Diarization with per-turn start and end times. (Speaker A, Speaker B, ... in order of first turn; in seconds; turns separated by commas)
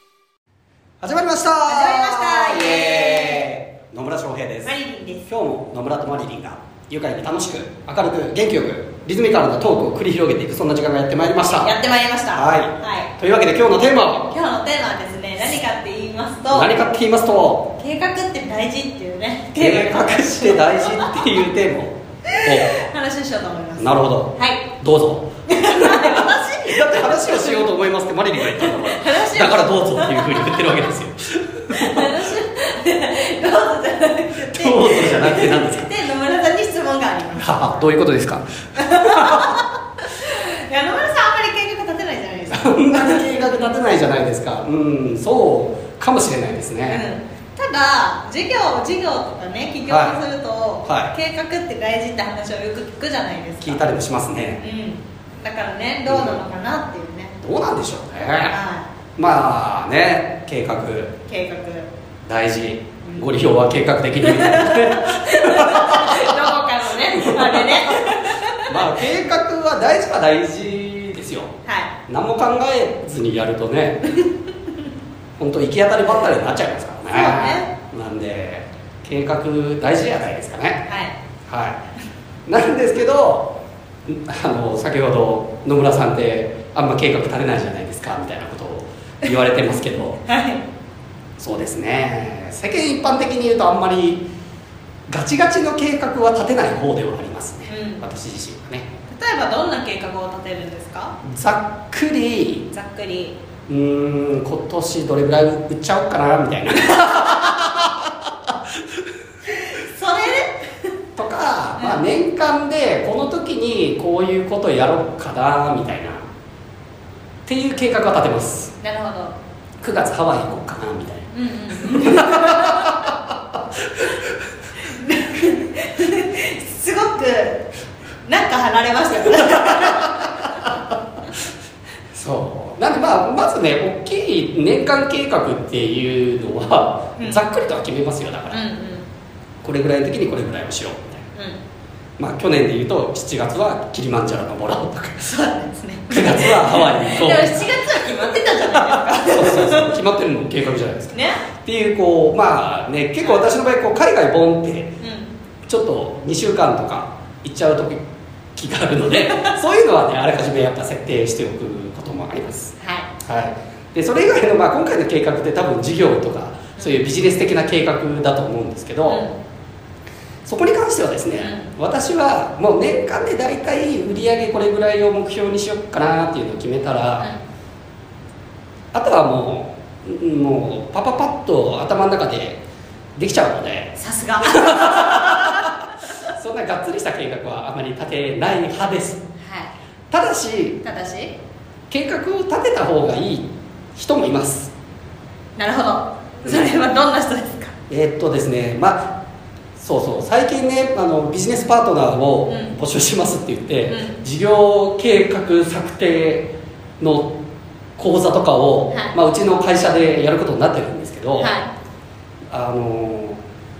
Speaker A: 1.0-4.7, Speaker B: 1.6-3.5, Speaker B: 4.6-5.3, Speaker A: 5.3-11.7, Speaker B: 11.6-13.1, Speaker A: 12.3-14.3, Speaker B: 14.2-16.7, Speaker A: 16.5-17.7, Speaker B: 17.8-21.2, Speaker A: 19.6-22.7, Speaker B: 22.3-24.6, Speaker A: 23.8-32.2, Speaker B: 25.5-27.7, Speaker B: 28.4-30.8, Speaker B: 31.7-37.8, Speaker A: 34.4-35.9, Speaker A: 37.4-39.5, Speaker B: 38.8-43.6, Speaker A: 42.5-47.0, Speaker B: 46.9-53.8, Speaker A: 49.9-50.2, Speaker A: 50.8-51.1, Speaker A: 53.6-54.6, Speaker B: 54.6-57.4, Speaker A: 56.0-56.4, Speaker A: 57.4-58.5, Speaker B: 58.5-58.9, Speaker A: 59.1-61.1, Speaker B: 61.2-61.9, Speaker A: 62.3-66.5, Speaker B: 63.0-63.3, Speaker B: 64.2-68.7, Speaker A: 67.1-71.5, Speaker B: 71.6-71.9, Speaker A: 72.1-74.0, Speaker A: 75.4-80.8, Speaker B: 77.1-77.7, Speaker B: 80.9-81.1, Speaker A: 81.5-81.8, Speaker A: 82.5-83.5, Speaker A: 84.1-90.2, Speaker B: 90.2-90.6, Speaker A: 91.4-94.3, Speaker A: 95.1-98.9, Speaker B: 97.7-98.0, Speaker B: 99.1-101.1, Speaker A: 101.2-102.7, Speaker B: 102.7-103.4, Speaker A: 103.7-108.1, Speaker B: 109.5-110.7, Speaker A: 111.2-116.2, Speaker B: 111.8-112.0, Speaker A: 117.5-118.7, Speaker B: 118.8-119.3, Speaker A: 119.8-123.1, Speaker B: 121.3-123.0, Speaker B: 124.8-127.7, Speaker B: 128.2-130.5, Speaker A: 129.5-130.3, Speaker A: 132.1-138.6, Speaker B: 137.2-137.4, Speaker B: 138.5-139.1, Speaker A: 139.6-141.3, Speaker A: 142.2-145.3, Speaker B: 145.2-149.9, Speaker A: 146.1-147.7, Speaker A: 148.6-154.9, Speaker B: 151.1-151.4, Speaker B: 153.2-153.5, Speaker B: 155.0-155.3, Speaker A: 155.7-158.0, Speaker A: 158.6-169.2, Speaker B: 162.8-163.1, Speaker B: 166.8-167.1, Speaker B: 169.0-169.3, Speaker A: 170.4-177.3, Speaker B: 171.4-171.7, Speaker A: 178.9-182.6, Speaker A: 183.2-185.7, Speaker B: 183.9-185.6, Speaker A: 186.3-189.2, Speaker B: 189.4-189.7, Speaker A: 190.1-190.8, Speaker B: 190.8-191.3, Speaker A: 191.9-194.7, Speaker B: 195.6-197.7, Speaker A: 196.4-196.8, Speaker A: 197.9-199.1, Speaker A: 199.8-207.3, Speaker B: 202.5-202.7, Speaker B: 203.9-204.1, Speaker A: 208.0-211.5, Speaker B: 211.4-211.7, Speaker A: 212.5-213.4